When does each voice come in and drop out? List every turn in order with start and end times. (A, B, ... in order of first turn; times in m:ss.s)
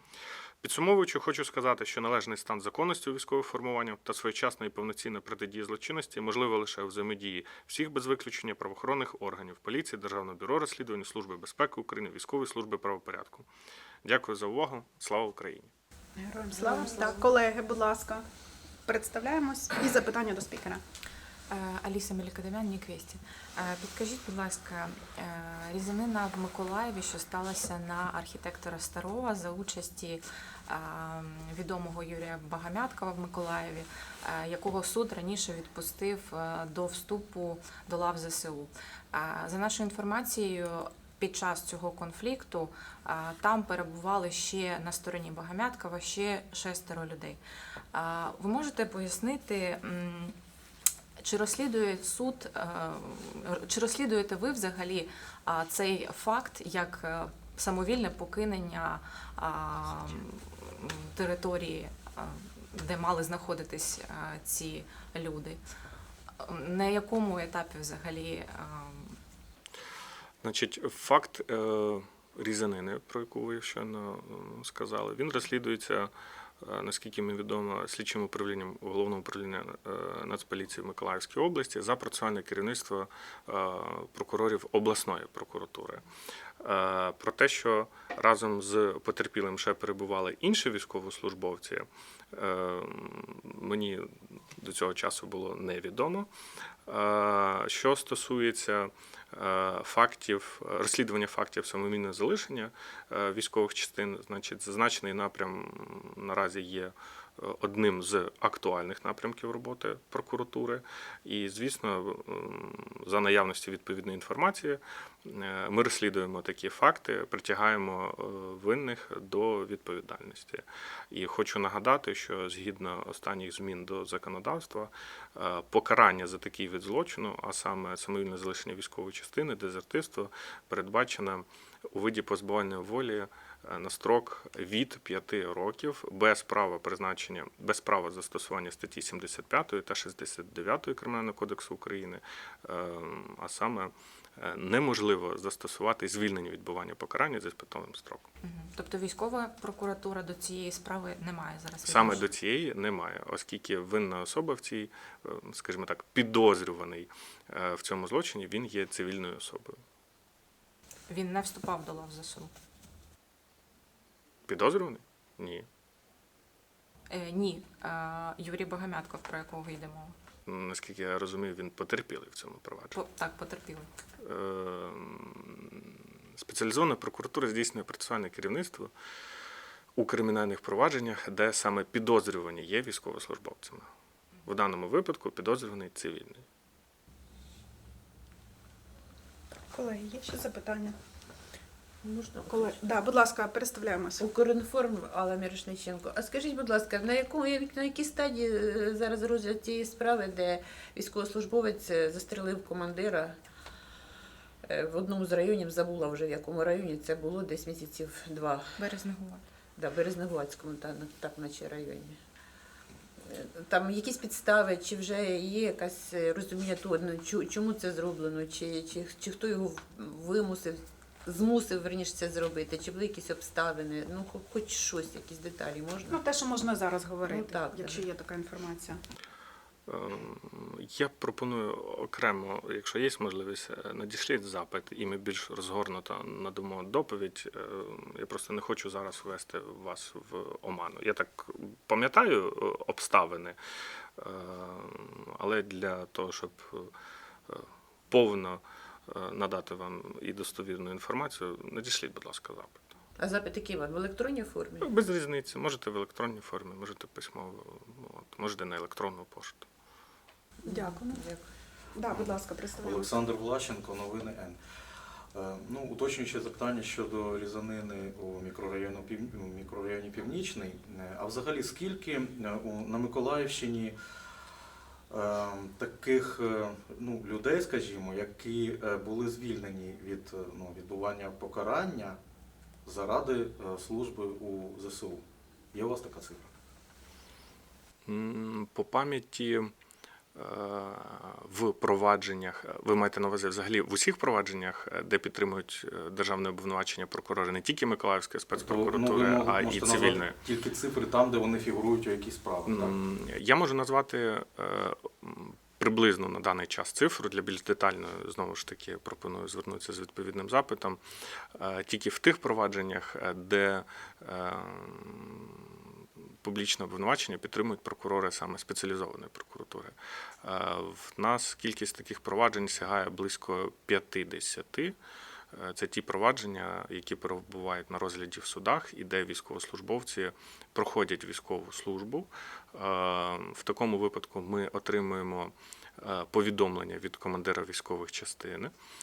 0:00.6-0:13.5 A
0:14.0-0:15.7 A
0:16.2-0:18.2 B
0:16.5-0:17.3 C
0:18.8-0:20.8 B
0:21.5-0:47.4 C
0:47.9-0:50.4 C
0:51.2-1:05.6 C
1:06.4-1:09.2 C
1:10.4-1:26.0 A
1:26.6-1:36.3 A
1:36.8-2:28.3 A
2:28.4-2:32.3 C
2:31.8-2:39.8 A
2:41.1-2:42.5 C
2:44.5-2:45.7 A
2:47.1-2:50.2 C
2:50.4-2:53.0 A
2:52.9-2:53.9 C
2:54.2-2:58.9 A
3:00.0-3:03.9 A
3:04.4-3:06.4 A
3:09.7-3:11.0 B
3:12.0-3:12.9 D
3:12.5-3:14.2 B
3:14.2-3:23.4 D
3:24.6-3:28.9 D
3:28.8-3:29.4 C
3:29.8-3:32.2 D
3:33.2-3:46.2 D
3:46.1-3:49.0 B
3:47.2-3:48.0 D
3:49.9-4:03.6 A
4:04.2-4:06.9 A
4:07.5-4:12.9 A
4:13.2-4:14.9 D
4:14.8-4:19.7 A
4:20.6-4:21.5 D
4:20.6-4:21.2 B
4:21.9-4:23.2 B
4:22.1-4:24.6 E
4:25.3-4:34.0 E
4:35.1-4:42.2 E
4:42.8-4:46.5 E
4:48.0-4:49.7 A
4:50.3-5:00.4 A
4:58.6-5:03.0 E
5:02.6-5:11.0 A
5:11.5-5:25.0 A
5:25.5-5:38.7 A